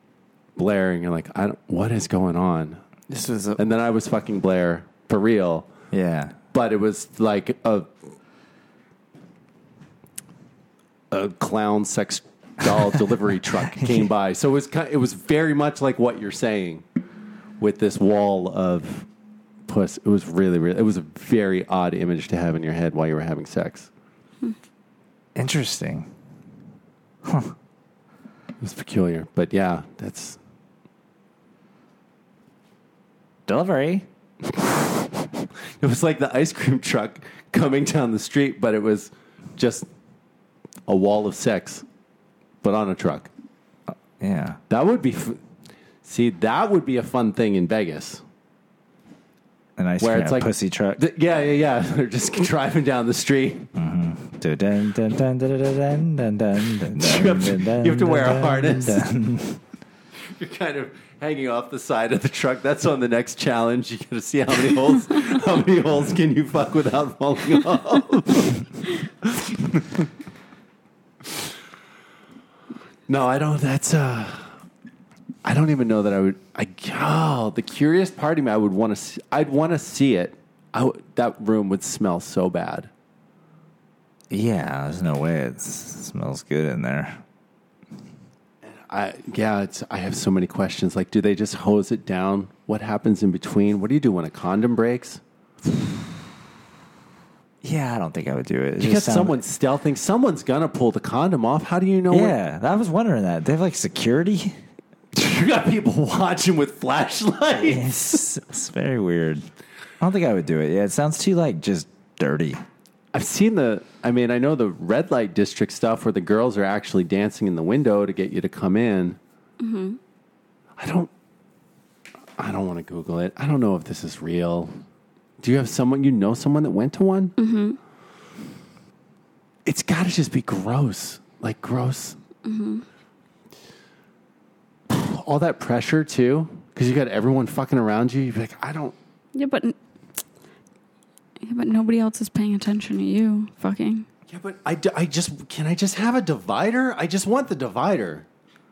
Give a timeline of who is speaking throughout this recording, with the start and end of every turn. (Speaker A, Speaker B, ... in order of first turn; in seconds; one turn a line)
Speaker A: 0.6-2.8
Speaker B: 3.1-3.6
Speaker A: 3.6-5.7
Speaker B: 5.9-6.4
Speaker A: 6.5-8.0
Speaker A: 11.1-16.8
Speaker B: 13.6-14.1
Speaker A: 17.6-19.1
Speaker A: 19.7-23.9
Speaker B: 25.4-26.1
Speaker B: 27.2-27.5
Speaker A: 28.6-30.4
Speaker B: 33.5-34.0
Speaker A: 35.8-39.9
Speaker A: 40.9-41.9
Speaker A: 42.6-43.3
Speaker B: 44.2-44.6
Speaker A: 44.7-45.4
Speaker A: 46.0-48.2
Speaker B: 49.8-51.0
Speaker A: 50.0-53.7
Speaker B: 53.8-59.6
Speaker A: 57.0-59.0
Speaker A: 60.3-68.7
Speaker A: 69.2-70.1
Speaker A: 73.1-74.5
Speaker A: 75.4-82.9
Speaker B: 84.3-87.2
Speaker A: 88.6-95.2
Speaker B: 97.6-99.4
Speaker A: 98.8-102.4
Speaker B: 102.1-104.6
Speaker A: 105.1-108.0
Speaker B: 107.6-109.5
Speaker B: 110.0-112.6
Speaker A: 113.1-119.2
Speaker C: 119.6-120.0
Speaker A: 120.8-121.1
Speaker A: 122.4-124.8
Speaker A: 125.4-127.3
Speaker C: 127.4-127.8
Speaker A: 129.7-132.2
Speaker C: 132.4-132.8
Speaker A: 134.9-138.9
Speaker C: 139.3-139.8
Speaker C: 141.4-144.1
Speaker A: 144.3-148.3